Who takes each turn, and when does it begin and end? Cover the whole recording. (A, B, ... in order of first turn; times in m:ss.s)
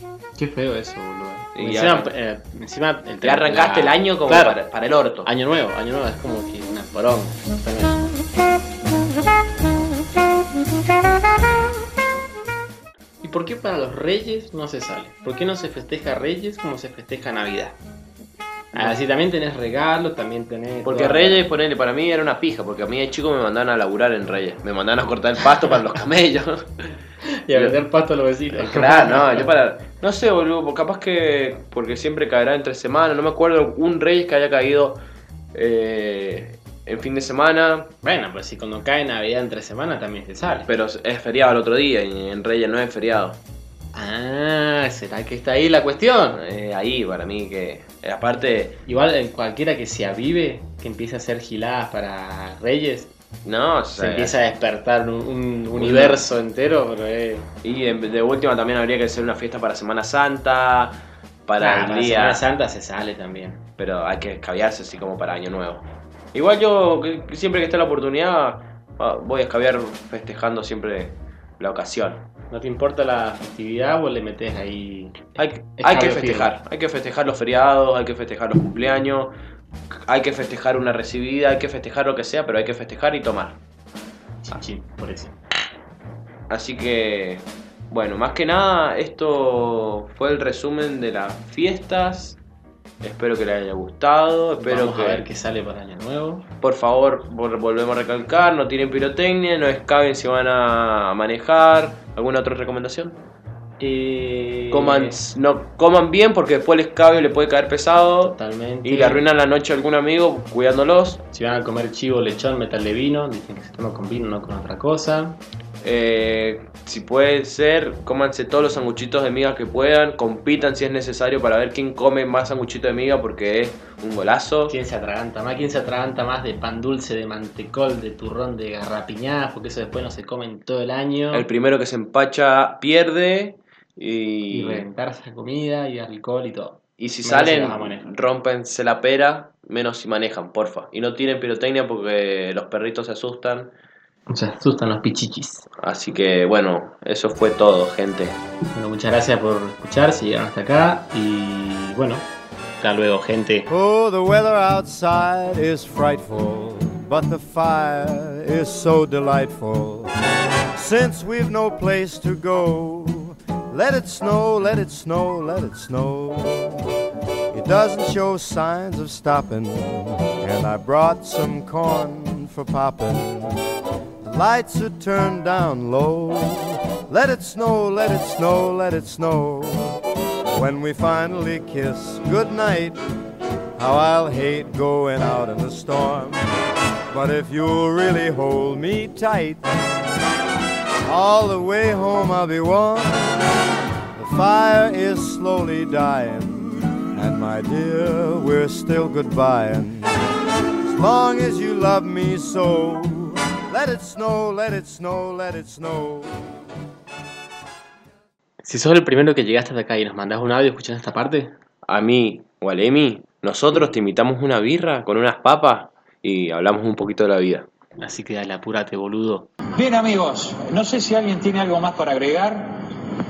0:00.4-0:04.6 A
0:01.5-0:02.1 B
0:03.2-0:05.3 B
0:05.2-0:08.1 A
0:13.2-0:17.8 A
0:18.7-0:21.5 A
0:20.8-0:26.6 B
0:27.4-0:29.5 A
0:28.6-0:35.0 B
0:35.5-0:37.9 B
0:38.0-0:40.7 A
0:40.6-0:43.4 B
0:43.9-0:46.4 A
0:46.3-0:48.8 B
0:48.8-0:53.1 A
0:53.4-0:54.4 B
0:53.9-0:57.5 A
0:55.8-0:56.2 B
0:57.6-1:02.4 B
1:01.6-1:03.6 A
1:03.8-1:12.2 B
1:12.5-1:16.5 A
1:15.4-1:19.3 B
1:20.1-1:23.6 B
1:24.4-1:25.4 A
1:26.5-1:32.4 B
1:33.0-1:35.2 B
1:34.6-1:36.5 A
1:36.6-1:43.2 B
1:43.8-1:45.2 A
1:44.7-1:51.2 B
1:48.2-1:49.2 A
1:51.3-1:55.4 A
1:55.8-2:04.8 B
2:04.7-2:11.5 A
2:11.3-2:14.9 B
2:14.5-2:18.1 A
2:17.0-2:23.7 B
2:24.3-2:25.6 A
2:25.8-2:28.4 B
2:28.7-2:32.3 A
2:32.8-2:33.7 A
2:33.7-2:40.1 C
2:40.7-2:46.8 C
2:47.5-2:53.6 C
2:54.2-3:00.0 C
3:00.5-3:03.0 C
3:03.8-3:06.3 C
3:07.1-3:09.6 C
3:11.0-3:13.1 C
3:14.2-3:20.1 C
3:20.8-3:26.4 C
3:28.6-3:31.5 A
3:31.8-3:37.7 B
3:38.0-3:39.5 A
3:39.8-3:42.8 D